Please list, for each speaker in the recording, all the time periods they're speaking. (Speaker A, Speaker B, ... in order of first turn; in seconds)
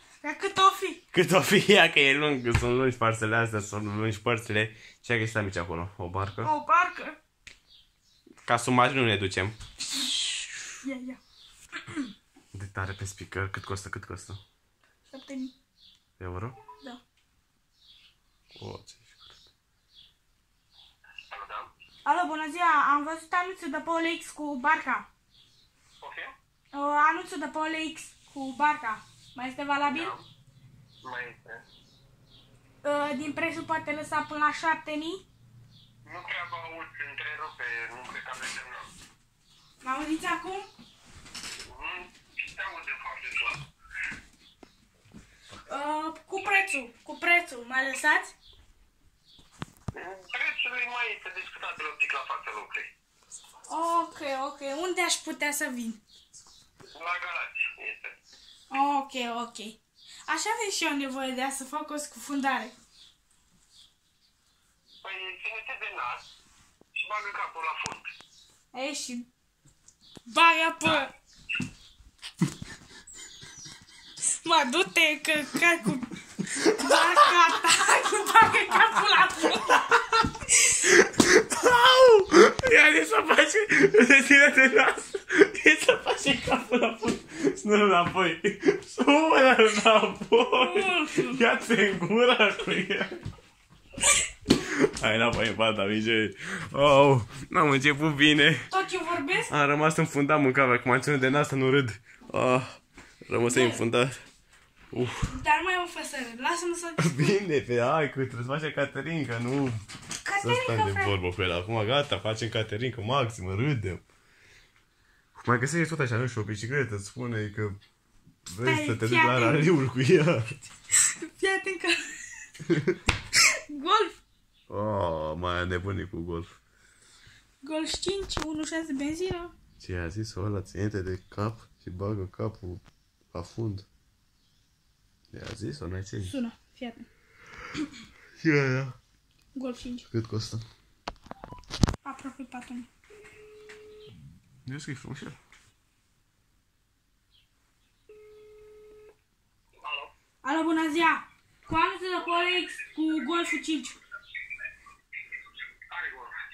Speaker A: 0.2-1.0, 6.4-7.2, 9.9-11.2, 15.1-15.5, 22.1-25.1, 26.7-30.1, 32.8-35.2, 39.8-40.7, 45.7-48.3, 53.7-56.0, 58.7-62.7, 68.7-69.3, 70.3-71.1, 74.4-80.8, 90.5-91.4, 98.7-99.5, 103.5-103.8, 105.3-107.4, 110.2-111.2, 118.7-119.7, 121.0-122.3, 123.4-124.2, 127.6-129.5, 136.2-137.1, 139.6-140.1, 142.0-142.9, 150.4-154.0
Speaker B: 1.1-6.5, 8.4-9.6, 12.5-14.4, 16.2-16.6, 18.6-19.3, 76.6-77.0, 80.8-93.2, 94.5-98.7, 99.5-104.2, 104.9-105.4, 107.0-109.8, 110.4-114.0, 115.3-117.8, 118.5-120.5, 124.7-126.5, 129.8-132.8, 133.3-133.9, 135.3-136.3, 138.4-139.0, 140.1-140.6, 144.7-145.4
Speaker C: 21.3-21.7, 26.0-26.3, 29.9-30.2, 31.0-31.6, 36.1-38.9, 41.7-43.6, 49.9-52.9, 57.0-58.2, 65.0-66.2, 67.0-68.0, 149.8-150.1, 155.9-156.3